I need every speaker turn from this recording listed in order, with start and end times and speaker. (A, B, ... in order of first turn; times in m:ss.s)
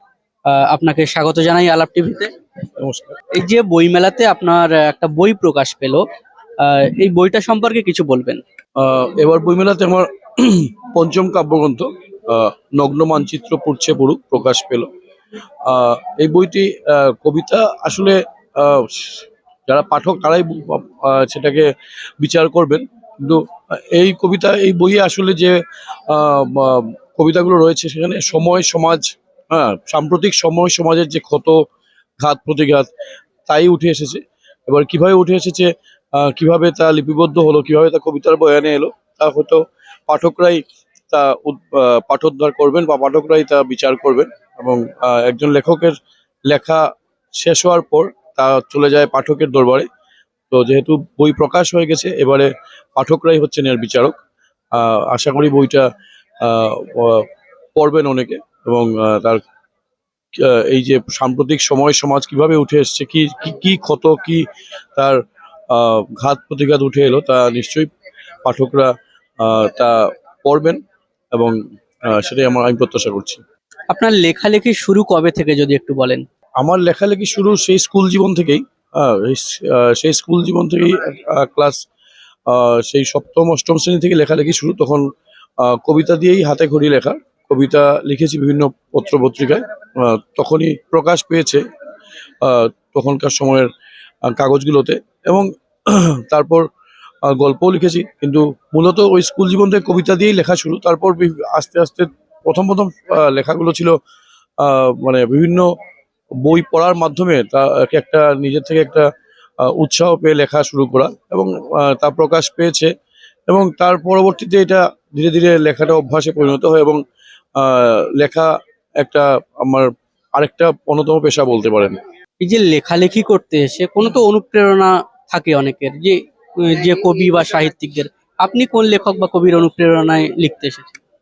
0:00.4-0:02.3 A
0:02.8-0:03.2 B
0:03.3-0:06.0 A
0:06.6-0:08.4 A
0:08.8-0:14.9 B
0:15.6-0:31.6 B
0:32.2-0:32.9 B
0:33.5-0:46.0 B
0:46.5-0:46.8 B
0:47.4-0:49.9 B
0:50.5-0:54.1 B
0:54.7-0:55.9 B
0:56.4-0:59.4 B
1:00.3-1:05.2 B
1:05.7-1:07.9 B
1:08.4-1:10.8 B
1:11.3-1:13.4 B
1:13.9-1:16.2 A
1:16.6-1:21.8 B
1:22.5-1:25.0 B
1:25.6-1:31.6 B
1:32.4-1:33.7 B
1:34.2-1:36.6 B
1:37.2-1:44.0 B
1:44.6-1:45.7 B
1:46.4-1:49.1 B
1:49.6-1:52.9 B
1:53.5-1:57.0 B
1:57.6-2:02.0 B
2:02.4-2:11.0 A